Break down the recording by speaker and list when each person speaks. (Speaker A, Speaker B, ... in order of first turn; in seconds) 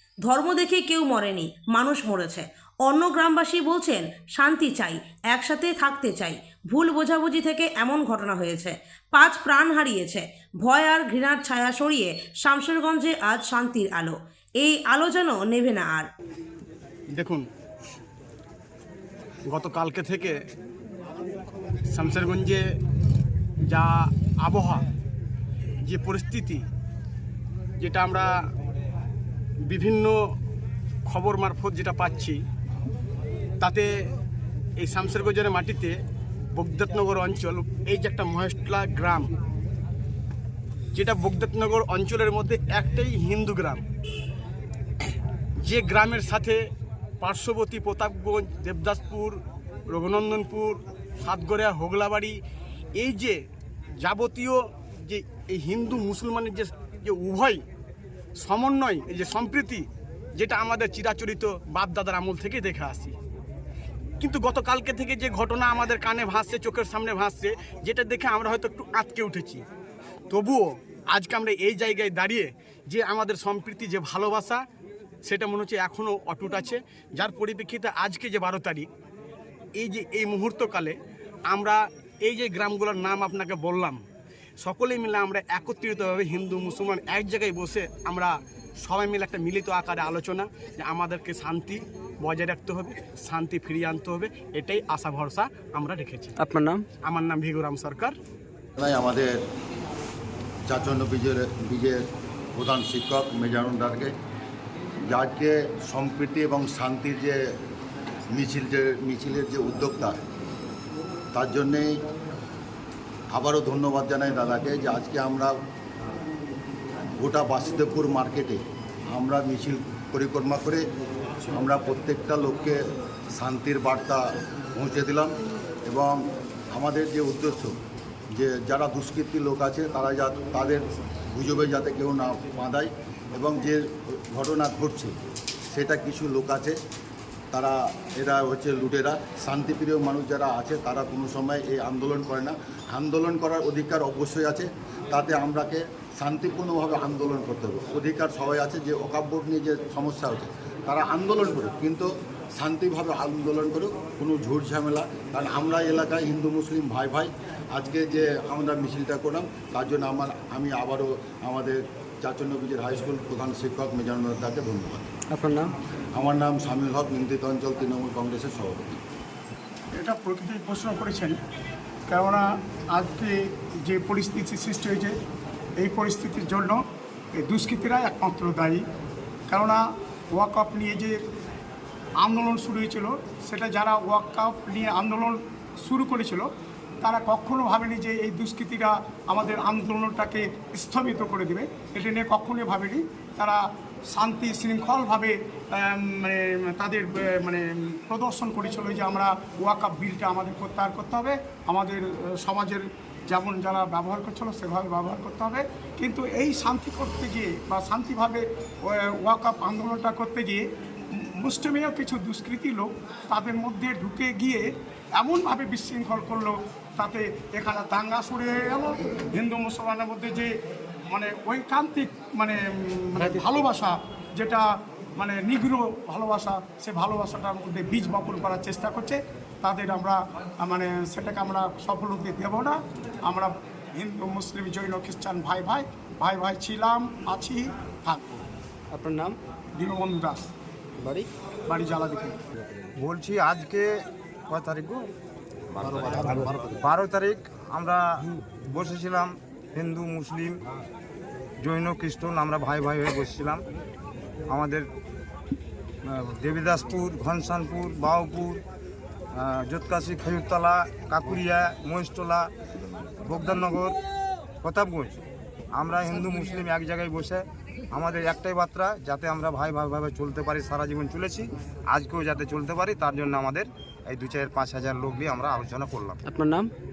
Speaker A: 0.2-16.1
Speaker B: 17.1-17.5, 19.5-20.4, 21.9-22.6, 23.7-24.9, 25.8-26.6, 27.8-28.4, 29.6-30.2, 31.1-32.4, 33.6-33.9, 34.8-36.0, 36.5-39.3, 40.9-43.8, 45.6-46.6, 47.2-52.4, 53.0-53.4, 54.0-57.6, 58.4-63.1, 64.2-69.7, 70.3-74.6, 75.2-78.9, 79.8-81.0, 81.5-84.0, 84.6-96.4, 97.0-98.2
Speaker C: 96.4-96.8, 165.3-165.7, 238.9-239.4, 241.0-241.3, 276.3-276.7
Speaker D: 98.8-99.4, 100.7-102.0, 102.5-104.1, 105.1-107.4, 108.3-110.2, 111.3-112.0, 113.3-115.5, 117.2-120.9, 121.5-122.8, 123.3-125.3, 125.9-126.2, 126.8-127.8, 128.3-135.2, 135.7-136.8, 137.5-165.1, 166.1-169.0
Speaker E: 169.9-171.4, 172.1-175.2, 175.8-176.8, 177.3-178.8, 179.5-181.2, 182.2-186.5, 187.0-220.5, 221.1-224.7, 225.2-238.4, 239.8-240.4, 241.7-242.4
Speaker F: 242.9-245.1, 245.7-250.6, 251.6-253.6, 254.5-254.9, 256.1-258.6, 259.3-262.5, 263.2-264.0, 264.6-265.2, 265.7-276.2